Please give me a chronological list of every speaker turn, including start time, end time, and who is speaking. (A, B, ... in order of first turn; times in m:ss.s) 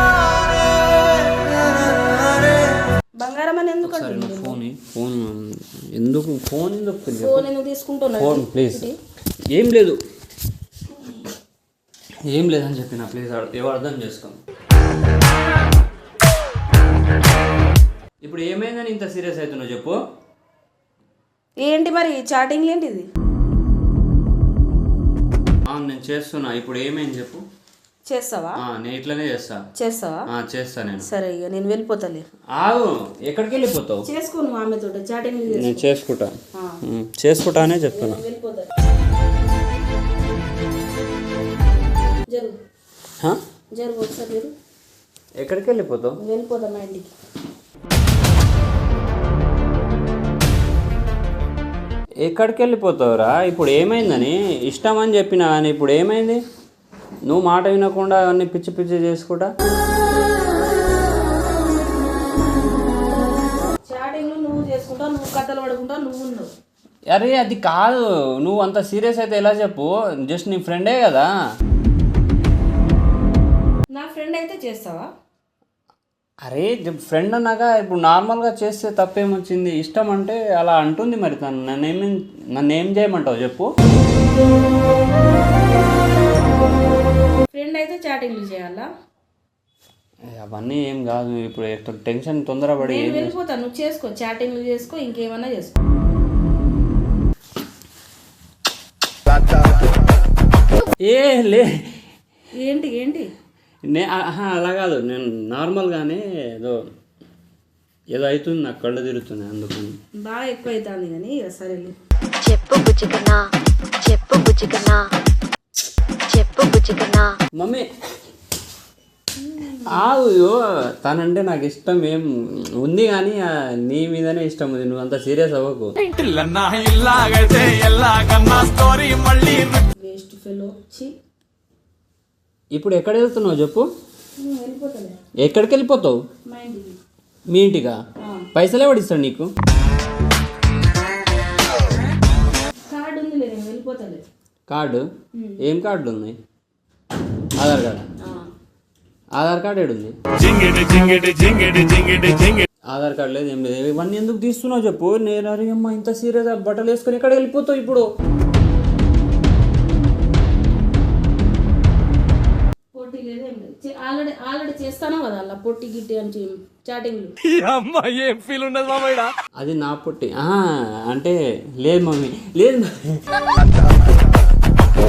0:03.2-0:04.6 A
0:03.8-0:07.4 B
0:07.1-0:09.0 A
0:08.2-0:08.9 B
0:09.5-0:10.0 B
0:12.3-0:14.4 B
0:18.2-0:20.0 B
0:21.6-0:23.1 A
0:25.7-0:27.4 B
0:28.1-0:28.6 A
0:28.6-0:29.6 B
0:29.8-0:30.2 A
0:30.3-0:31.1 B
0:31.0-0:32.2 A
0:32.6-0:34.1 B
0:34.1-0:35.9 A
0:35.5-0:38.2 B
0:37.9-0:38.7 A
0:43.7-0:44.5 A
0:45.4-0:46.2 B
0:46.2-0:47.1 A
0:52.2-0:56.4 B
0:57.3-0:59.5 B
1:03.9-1:06.5 A
1:07.1-1:11.3 B
1:13.9-1:15.1 A
1:16.4-1:23.7 B
1:27.5-1:28.9 A
1:30.3-1:33.4 B
1:32.8-1:35.8 A
1:41.0-1:42.0 B
1:42.6-1:43.3 A
1:43.9-1:46.8 B
1:48.1-1:50.0 B
1:50.2-1:52.0 A
1:52.4-1:53.4 C
1:54.0-1:55.1 C
1:56.3-1:57.3 C
1:57.6-1:57.9 B
1:59.4-2:00.0 A
1:59.7-2:06.0 B
2:06.0-2:09.8 D
2:10.0-2:11.2 A
2:12.7-2:13.9 B
2:14.4-2:15.2 A
2:15.4-2:16.2 B
2:16.5-2:17.0 A
2:17.5-2:18.0 B
2:18.2-2:18.5 A
2:18.6-2:19.5 B
2:22.9-2:24.2 A
2:24.7-2:25.1 B
2:25.4-2:25.6 A
2:25.6-2:26.4 B
2:27.6-2:28.1 B
2:28.2-2:28.5 A
2:29.4-2:30.7 B
2:30.4-2:32.7 D
2:32.9-2:38.0 B
2:42.9-2:47.3 A
2:47.4-2:49.3 D
2:49.6-2:53.4 B